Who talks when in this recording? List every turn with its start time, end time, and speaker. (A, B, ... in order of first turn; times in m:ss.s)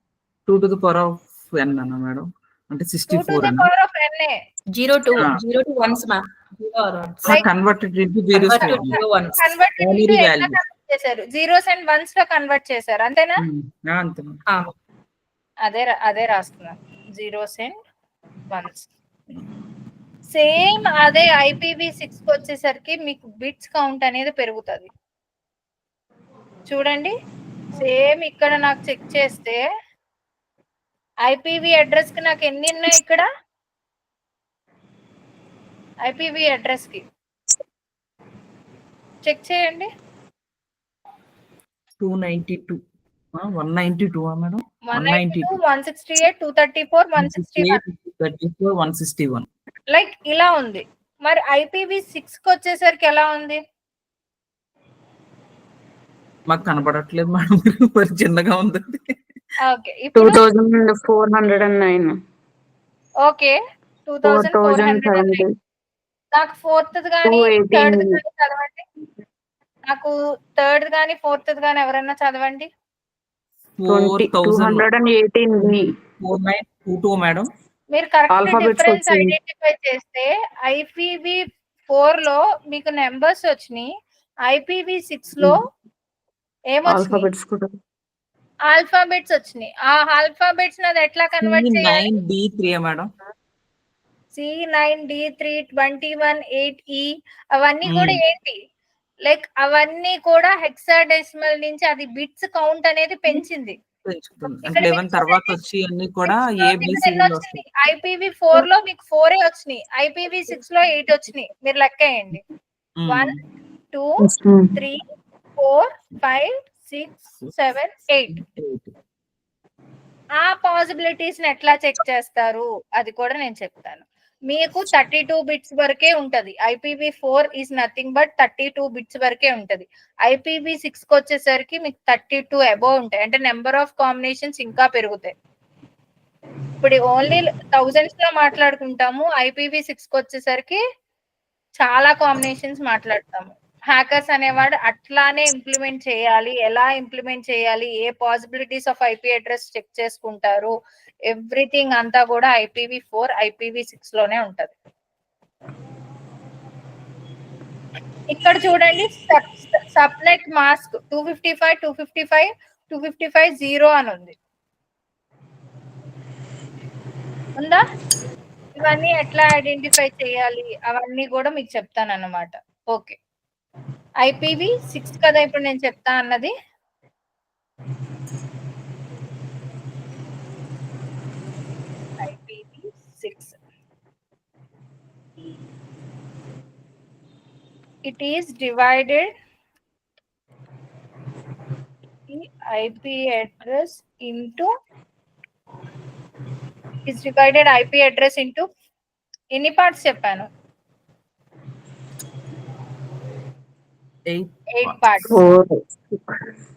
0:00.5-0:03.7 A
0:03.1-0:04.4 B
0:04.7-0:07.4 C
0:07.2-0:09.0 A
0:08.3-0:09.5 C
0:08.6-0:13.4 B
0:09.8-0:10.6 A
0:13.4-0:14.3 A
0:15.6-0:17.8 B
0:18.5-0:18.9 B
0:20.3-0:24.9 B
0:26.7-0:27.1 B
0:27.7-0:29.6 B
0:31.2-0:33.3 B
0:36.0-0:37.0 B
0:39.2-0:39.9 B
0:42.0-0:42.8 A
0:43.3-0:45.5 A
0:44.8-0:47.8 B
0:47.2-0:49.4 A
0:49.9-0:53.6 B
0:56.5-0:59.2 A
0:59.6-1:00.4 B
1:00.1-1:02.1 D
1:03.2-1:05.4 B
1:04.2-1:05.5 D
1:06.3-1:08.8 B
1:07.2-1:08.2 D
1:09.9-1:12.7 B
1:13.8-1:14.8 A
1:13.9-1:15.8 D
1:16.2-1:17.5 A
1:17.9-1:23.9 B
1:18.3-1:19.4 D
1:24.4-1:25.6 B
1:26.7-1:27.3 B
1:26.8-1:27.7 D
1:28.7-1:32.0 B
1:31.4-1:33.1 A
1:34.3-1:38.6 B
1:37.8-1:38.2 A
1:39.2-1:43.8 B
1:44.0-1:47.6 A
1:44.6-1:45.5 B
1:46.2-1:52.4 B
1:53.0-1:53.4 A
1:53.1-1:53.3 B
1:53.9-1:54.2 B
1:54.2-1:54.7 D
1:54.7-1:55.0 B
1:55.6-1:58.4 B
1:58.3-1:58.9 A
2:00.4-2:15.3 B
2:16.8-2:20.8 B
2:21.8-2:30.7 B
2:31.3-2:34.7 B
2:38.3-2:44.3 B
2:47.6-2:47.8 B
2:48.8-2:53.2 B
2:54.2-2:56.5 B
3:02.2-3:03.5 B
3:08.0-3:09.3 B
3:12.3-3:14.7 B
3:17.0-3:18.6 B
3:19.5-3:20.5 B
3:24.3-3:25.0 A
3:24.7-3:25.4 B
3:25.3-3:26.5 D